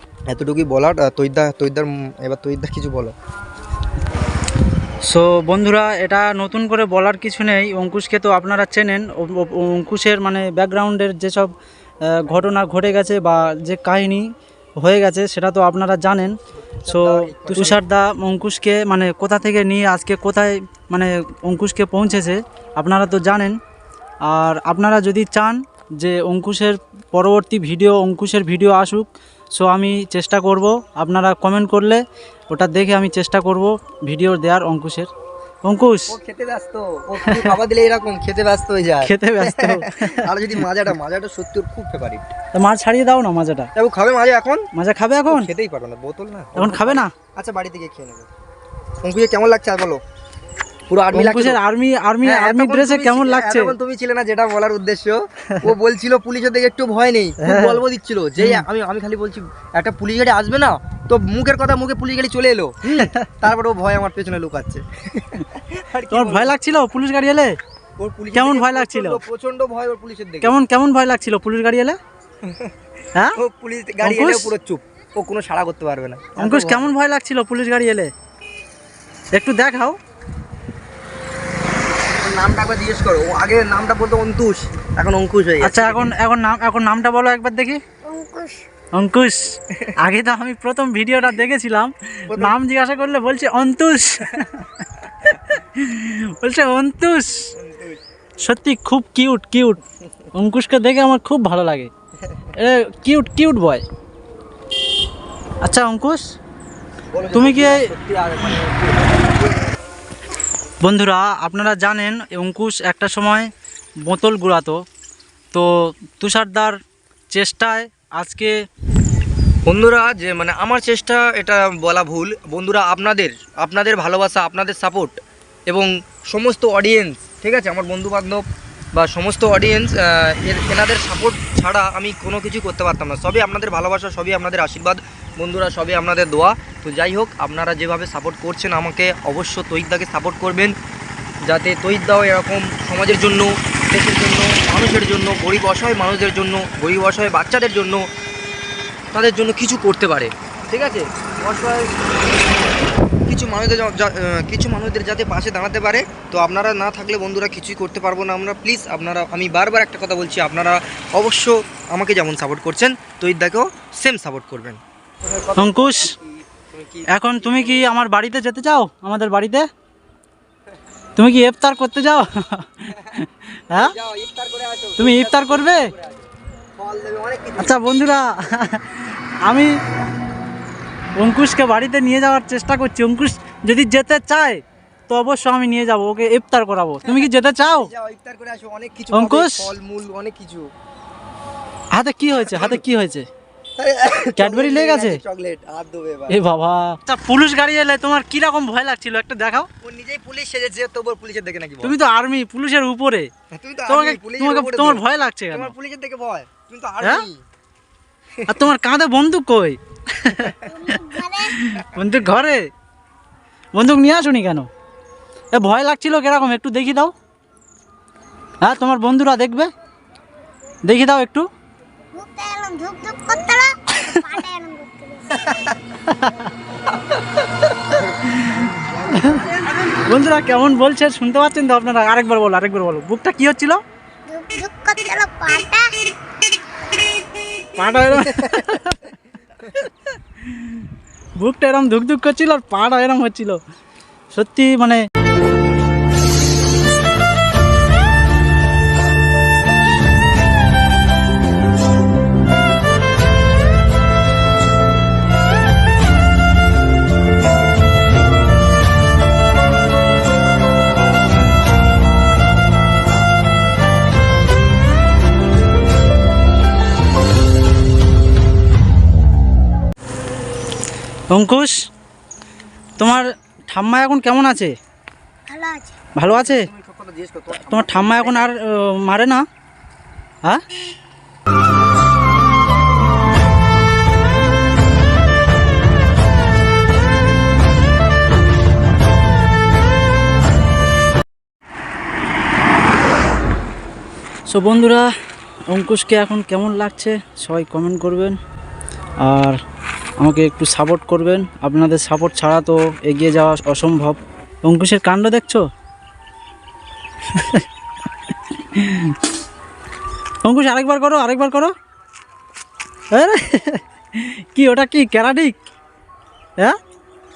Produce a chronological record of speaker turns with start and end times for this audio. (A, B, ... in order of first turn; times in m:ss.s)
0:00.3-0:03.1 A
0:05.0-0:11.5 B
0:12.1-0:14.3 B
0:14.8-0:16.4 B
0:16.8-0:17.8 A
0:16.9-0:23.6 B
0:24.2-0:35.1 B
0:35.6-0:36.2 B
0:36.1-0:42.3 A
0:37.2-0:37.6 B
0:39.0-0:40.6 B
0:42.5-0:43.7 B
0:43.8-0:44.7 A
0:44.7-0:45.5 B
0:45.3-0:48.3 A
0:46.6-0:47.1 B
0:49.0-0:50.0 A
0:50.9-0:51.6 A
0:51.1-0:53.7 B
0:52.2-1:06.6 A
0:57.4-0:57.8 B
0:58.4-0:58.6 B
1:02.9-1:03.2 B
1:06.1-1:07.5 B
1:08.0-1:10.6 A
1:08.3-1:09.2 B
1:10.4-1:12.0 B
1:12.4-1:12.7 A
1:13.4-1:16.9 A
1:14.0-1:14.5 B
1:16.4-1:18.1 B
1:19.3-1:20.0 B
1:22.1-1:26.1 A
1:25.6-1:27.8 B
1:28.0-1:28.6 C
1:28.9-1:37.5 B
1:32.3-1:32.6 A
1:37.6-1:38.0 A
1:38.4-1:39.8 B
1:40.3-1:41.9 B
1:42.2-1:42.5 A
1:42.5-1:43.8 B
1:45.6-1:46.2 B
1:47.1-1:49.7 A
1:47.3-1:47.9 B
1:50.8-1:53.5 B
1:54.0-1:54.8 B
1:55.5-1:56.8 B
1:57.3-1:58.5 B
1:59.6-2:05.1 A
2:05.7-2:08.4 A
2:08.9-2:20.8 A
2:21.4-2:28.0 A
2:29.1-2:32.0 A
2:33.3-2:47.9 A
2:45.6-2:46.2 B
2:47.1-2:49.7 B
2:51.2-2:53.9 B
2:52.9-2:53.2 A
2:53.7-2:57.8 A
2:55.0-2:55.9 B
2:57.6-2:59.7 B
3:01.2-3:07.9 B
3:07.0-3:10.7 A
3:09.1-3:09.7 B
3:11.9-3:13.3 B
3:12.4-3:12.8 A
3:13.8-3:16.4 A
3:14.4-3:15.2 B
3:16.3-3:19.7 B
3:19.8-3:21.9 A
3:21.8-3:23.3 B
3:23.5-3:27.4 A
3:23.8-3:25.7 B
3:27.0-3:27.3 B
3:28.4-3:28.7 A
3:28.5-3:32.7 B
3:30.6-3:31.6 C
3:33.7-3:34.7 B
3:35.5-3:37.1 B
3:38.6-3:39.7 B
3:40.8-3:41.4 B
3:42.1-3:45.6 C
3:46.0-3:46.5 B
3:47.9-3:53.8 B
3:47.9-3:49.7 A
3:54.3-3:56.0 C
3:57.7-3:59.0 B
4:00.4-4:00.8 B
4:01.4-4:03.6 B
4:04.3-4:05.0 B
4:31.3-4:31.8 B
4:33.0-4:34.7 B
4:35.5-4:36.0 C
4:36.1-4:36.7 B
4:36.2-4:38.5 A
4:37.5-4:39.4 B
4:54.5-4:55.1 B
4:55.7-4:58.4 B
4:59.2-4:59.6 B
5:00.2-5:05.6 B
5:07.3-5:07.6 B
5:08.6-5:09.2 B
5:10.4-5:11.7 B
5:13.1-5:15.6 B